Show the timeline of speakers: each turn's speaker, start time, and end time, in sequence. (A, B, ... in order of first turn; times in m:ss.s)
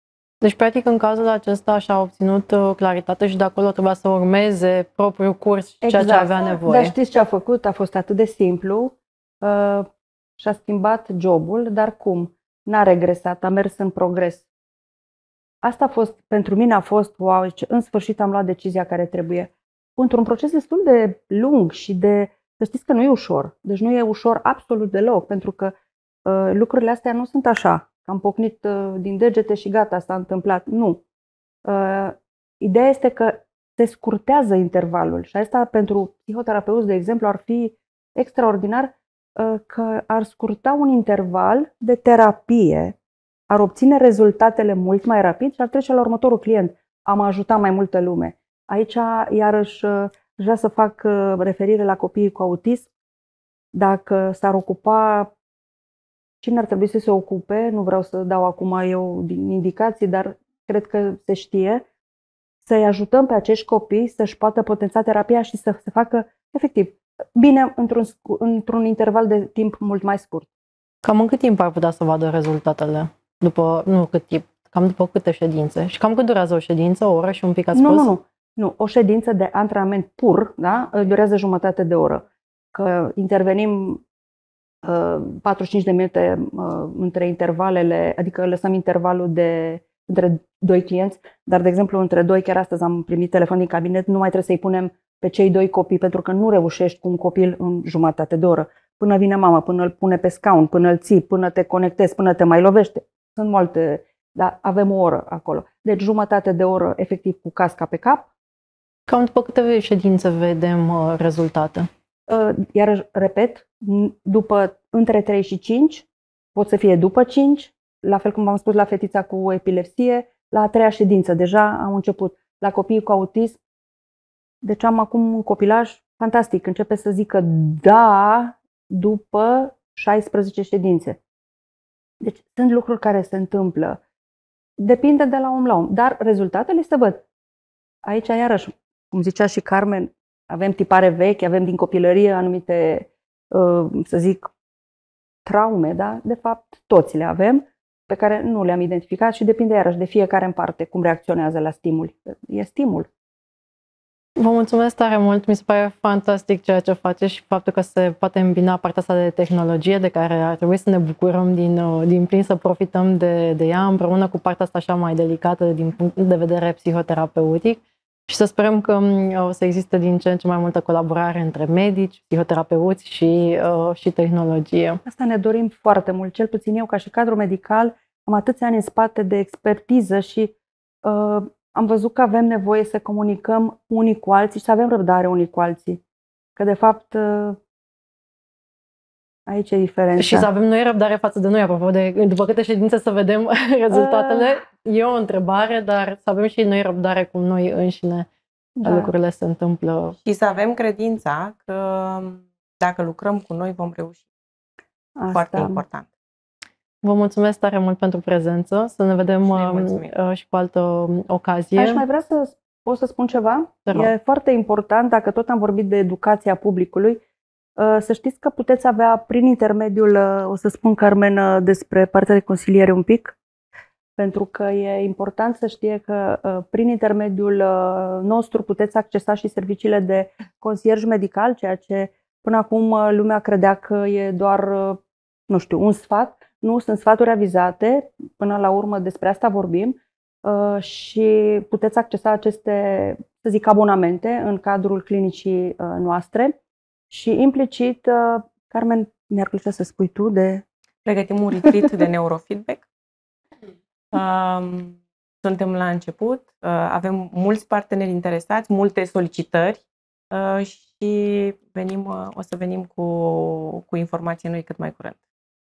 0:00.4-0:06.9 A
0:05.8-0:09.9 B
0:10.4-0:14.5 B
0:15.6-0:25.7 B
0:26.2-0:31.0 B
0:31.6-0:43.0 B
0:43.5-0:52.9 B
0:53.7-0:55.3 B
0:56.4-1:01.8 B
1:02.7-1:10.5 B
1:11.0-1:18.1 A
1:17.7-1:24.0 B
1:24.8-1:48.3 B
1:49.1-1:51.9 A
1:52.3-2:03.6 B
2:04.6-2:11.2 B
2:12.2-2:14.0 B
2:14.8-2:17.2 B
2:18.0-2:24.5 B
2:25.4-2:33.1 B
2:34.4-2:55.0 A
2:55.0-3:00.5 B
3:01.0-3:06.0 B
3:06.6-3:07.6 B
3:09.5-3:10.5 B
3:10.2-3:18.3 A
3:13.9-3:14.6 B
3:18.8-3:19.1 B
3:18.8-3:20.2 A
3:20.2-3:24.2 C
3:25.2-3:25.8 B
3:25.3-3:26.1 C
3:27.0-3:32.0 A
3:29.4-3:30.1 C
3:31.8-3:37.2 B
3:33.9-3:34.1 A
3:37.8-3:43.4 B
3:44.2-4:06.6 B
4:07.1-4:10.6 B
4:11.0-4:12.9 C
4:14.1-4:25.2 C